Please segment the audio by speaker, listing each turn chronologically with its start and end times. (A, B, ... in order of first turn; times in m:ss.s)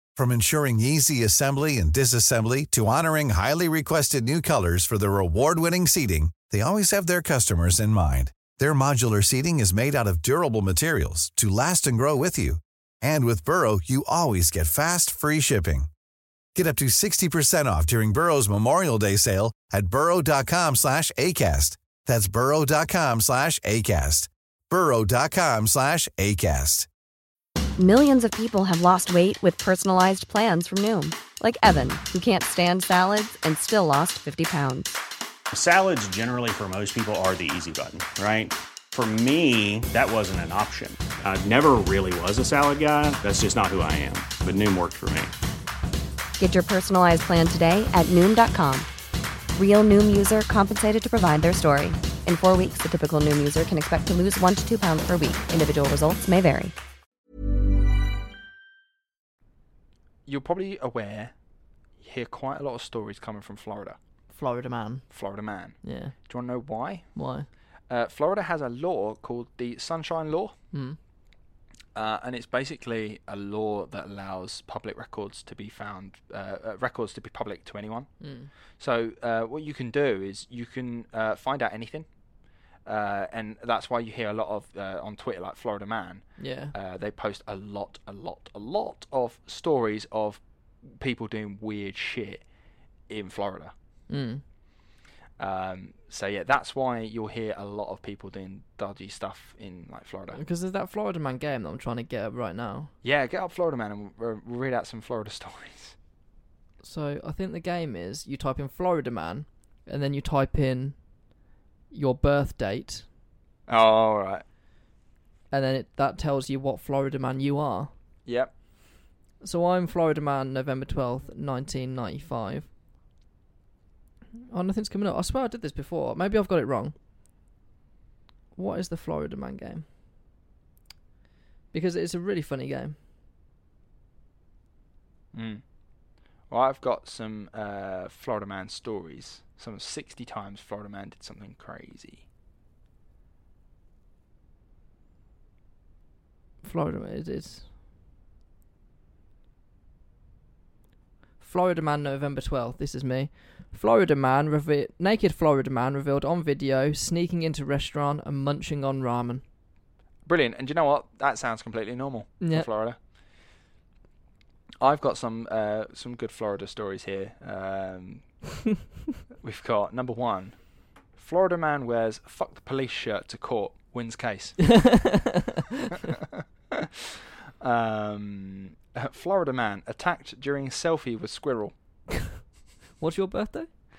0:00.2-0:15.9 A
0:16.6-0:26.9 A
0:27.8-0:35.0 B
0:35.5-0:45.3 C
0:46.4-0:48.9 B
0:49.5-0:56.7 B
1:00.3-1:01.3 D
1:02.0-1:04.0 D
1:04.3-1:05.1 E
1:05.1-1:07.1 D
1:05.8-1:06.2 E
1:07.2-1:07.5 E
1:07.9-1:10.6 D
1:10.7-1:11.0 E
1:11.9-1:18.1 D
1:18.2-1:18.5 E
1:18.8-1:22.1 D
1:22.8-1:32.4 D
1:26.4-1:26.7 E
1:33.1-1:33.7 D
1:34.1-1:34.4 E
1:35.4-1:40.4 D
1:40.3-1:42.9 E
1:43.0-1:46.0 D
1:46.8-1:51.0 E
1:51.9-1:53.1 E
1:53.7-1:54.4 D
1:55.5-1:57.9 E
1:58.3-1:58.5 D
1:59.4-2:02.7 E
2:04.5-2:07.0 E
2:08.6-2:09.9 E
2:11.7-2:13.0 E
2:15.3-2:15.6 D
2:16.5-2:22.2 D
2:26.6-2:27.7 E
2:31.4-2:39.4 E
2:40.2-2:43.0 D
2:42.4-2:42.7 E
2:44.8-2:48.2 D
2:49.4-2:50.6 D
2:51.2-2:54.8 D
2:54.7-2:55.4 E
2:56.1-2:56.9 D
2:57.6-3:01.7 D
3:03.0-3:03.7 E